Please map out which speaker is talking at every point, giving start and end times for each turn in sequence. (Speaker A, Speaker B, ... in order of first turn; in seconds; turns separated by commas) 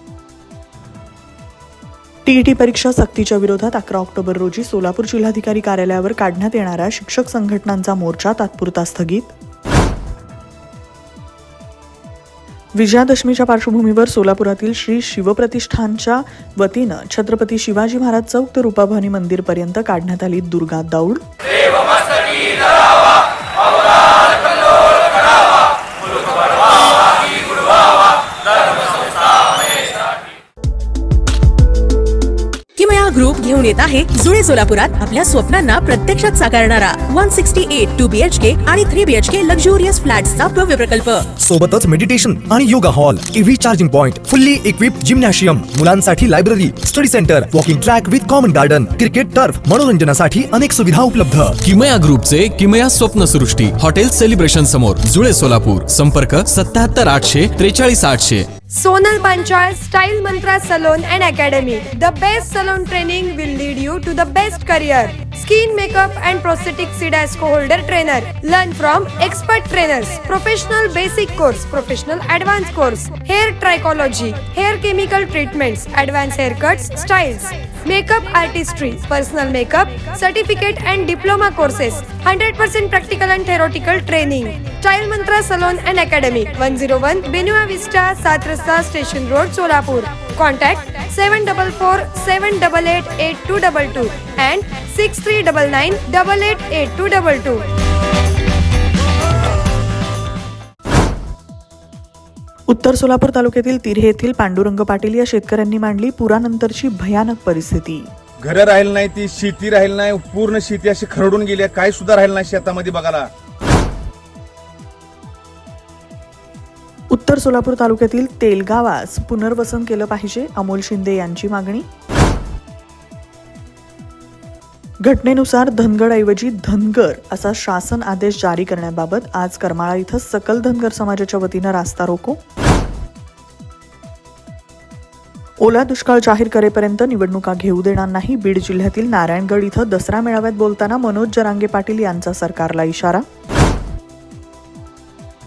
Speaker A: 2.2-9.3, Speaker A: 12.8-21.2, Speaker B: 32.8-41.3, Speaker C: 41.3-51.6, Speaker D: 51.6-58.5, Speaker E: 58.7-97.7, Speaker A: 102.7-108.0, Speaker F: 108.4-113.3, Speaker A: 117.1-121.9, Speaker A: 125.0-132.4, Speaker A: 135.6-143.2